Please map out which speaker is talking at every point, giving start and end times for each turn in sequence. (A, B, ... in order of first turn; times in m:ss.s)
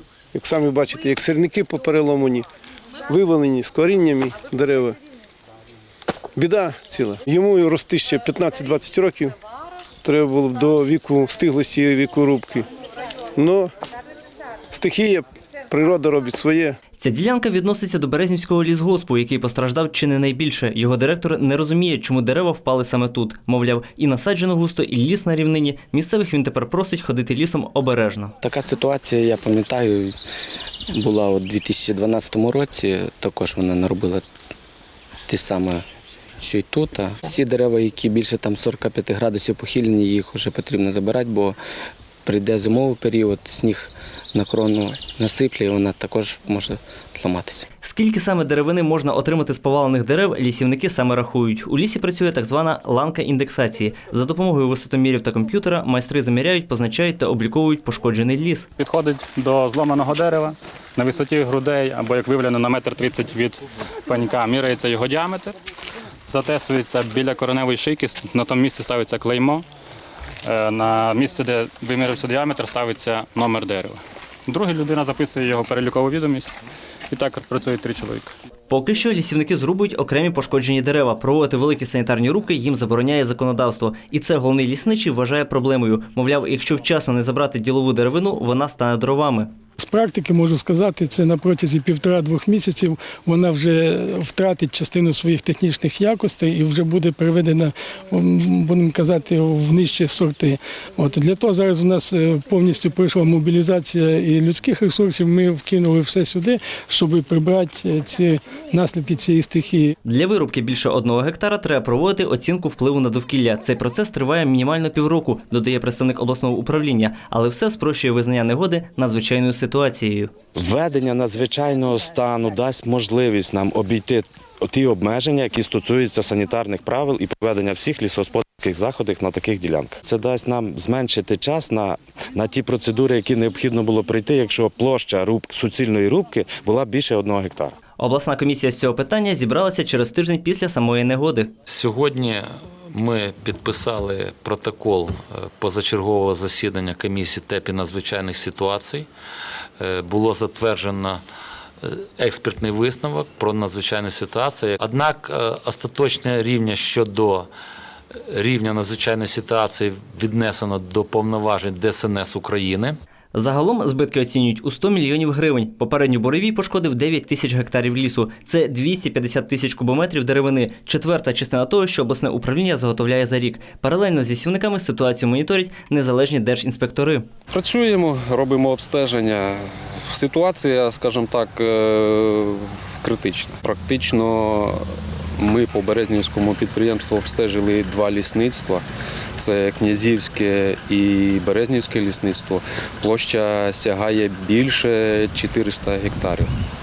0:00.3-0:02.5 A
0:03.1-0:05.0 A
0:06.4-0:09.3 A
0:10.0-0:12.7 A
0:13.4-0:13.7 A
0:14.7-0:16.8 A
0:17.0-0:28.3 B
0:28.4-0:30.1 C
0:30.9-0:34.2 C
0:35.3-0:35.8 C
0:36.4-0:41.6 C
0:42.2-0:47.7 C
0:47.8-0:58.7 B
0:58.8-1:05.5 D
1:06.3-1:09.6 D
1:10.4-1:16.5 D
1:17.1-1:18.3 D
1:18.7-1:29.5 B
1:29.8-1:49.9 E
1:50.1-2:00.3 B
2:00.6-2:17.8 F
2:18.0-2:21.5 B
2:21.7-2:29.1 G
2:29.8-2:31.2 G
2:31.8-2:37.5 G
2:38.3-2:43.0 G
2:43.3-2:57.3 B
2:57.5-3:04.8 H
3:05.4-3:08.8 H
3:09.4-3:16.5 H